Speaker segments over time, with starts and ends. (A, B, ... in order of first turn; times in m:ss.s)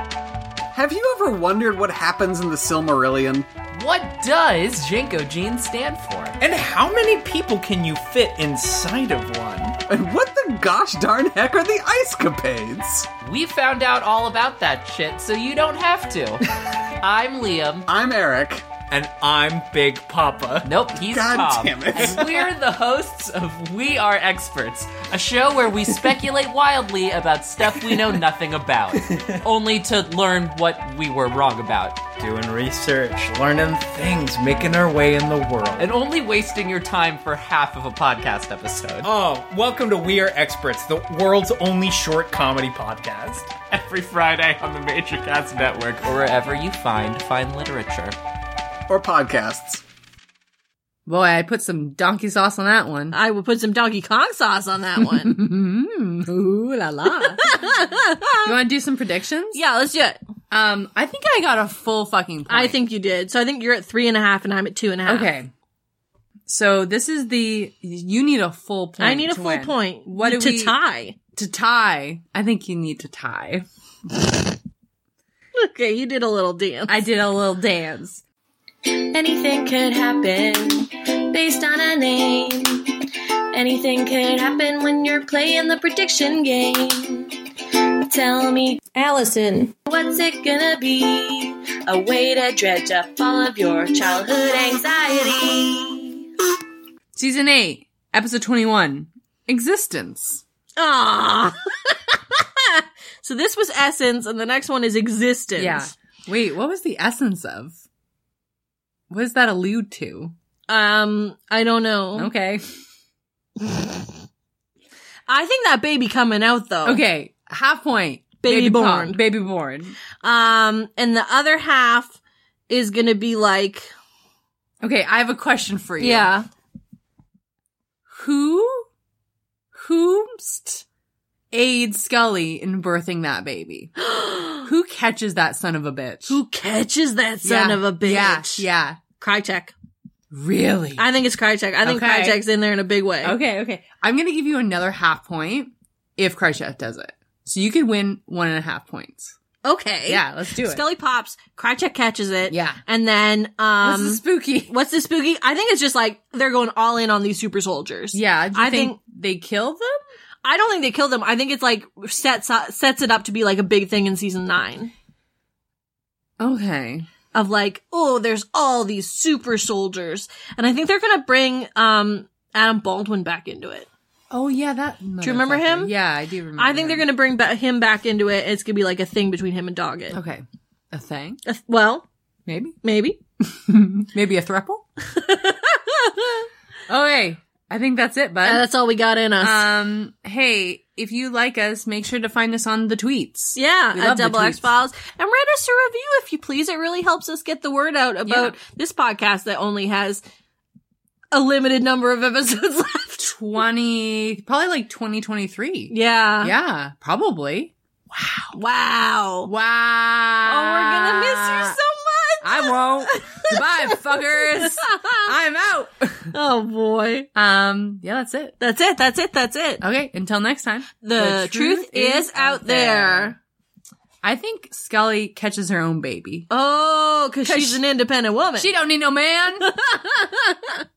0:00.7-0:03.5 A
0:03.7-0:06.4 B
0:06.4-0:09.8 C
0:09.9-0:13.1 A
0:13.2-0:17.9 B
0:17.9-0:18.7 A
0:18.9-0:20.8 C
0:20.6-0:32.0 B
0:21.0-0:22.5 A
0:32.2-0:35.9 C
0:35.8-0:39.1 B
0:39.0-0:43.7 C
0:43.7-0:48.2 B
0:48.9-0:49.8 A
0:51.0-0:53.2 D
0:53.1-0:55.3 E
0:55.0-0:59.6 D
0:57.4-0:58.6 E
0:59.5-1:00.2 E
1:00.5-1:02.8 D
1:02.5-1:05.3 E
1:05.0-1:05.5 D
1:06.5-1:10.7 D
1:09.0-1:11.2 E
1:11.4-1:13.7 D
1:15.6-1:17.0 E
1:16.9-1:18.2 D
1:18.9-1:23.0 F
1:23.5-1:27.4 F
1:28.0-1:36.2 F
1:37.1-1:40.4 D
1:40.8-1:45.9 E
1:45.6-1:47.8 D
1:49.1-1:50.3 D
1:50.7-1:52.3 E
1:52.2-1:52.7 D
1:55.3-1:57.0 E
1:56.8-2:00.0 D
1:58.4-1:59.2 E
2:00.2-2:02.2 E
2:02.7-2:03.9 E
2:04.8-2:06.3 D
2:06.0-2:06.5 E
2:08.1-2:08.9 D
2:09.7-2:10.8 D
2:11.5-2:14.0 D
2:14.1-2:14.6 E
2:14.6-2:16.4 D
2:16.3-2:18.7 E
2:17.4-2:19.0 D
2:19.2-2:19.7 E
2:20.3-2:21.0 D
2:21.0-2:23.4 E
2:21.8-2:22.4 D
2:23.2-2:29.4 D
2:29.6-2:39.0 E
2:30.1-2:30.8 D
2:32.5-2:32.8 D
2:33.8-2:34.7 D
2:38.1-2:40.0 D
2:40.4-2:44.9 E
2:46.4-2:47.1 D
2:47.3-2:53.9 E
2:54.3-2:57.0 D
2:55.2-2:55.9 E
2:56.6-3:00.2 E
3:00.1-3:01.4 D
3:01.4-3:02.0 E
3:02.4-3:02.8 D
3:02.8-3:03.2 E
3:03.4-3:04.8 D
3:05.1-3:06.5 E
3:06.9-3:08.6 D
3:08.4-3:09.7 E
3:09.4-3:14.7 D
3:13.6-3:20.2 E
3:18.3-3:18.6 D
3:21.3-3:23.3 E
3:23.2-3:28.5 D
3:25.9-3:26.6 E
3:28.5-3:29.5 E
3:29.4-3:31.8 D
3:30.4-3:35.3 E
3:32.4-3:36.4 D
3:36.3-3:37.3 E
3:37.3-3:38.6 D
3:38.6-3:39.8 E
3:39.8-3:43.3 D
3:41.0-3:43.4 E
3:44.2-3:46.5 D
3:46.5-3:48.7 E
3:47.4-3:47.8 D
3:48.6-3:49.7 D
3:49.7-3:50.6 E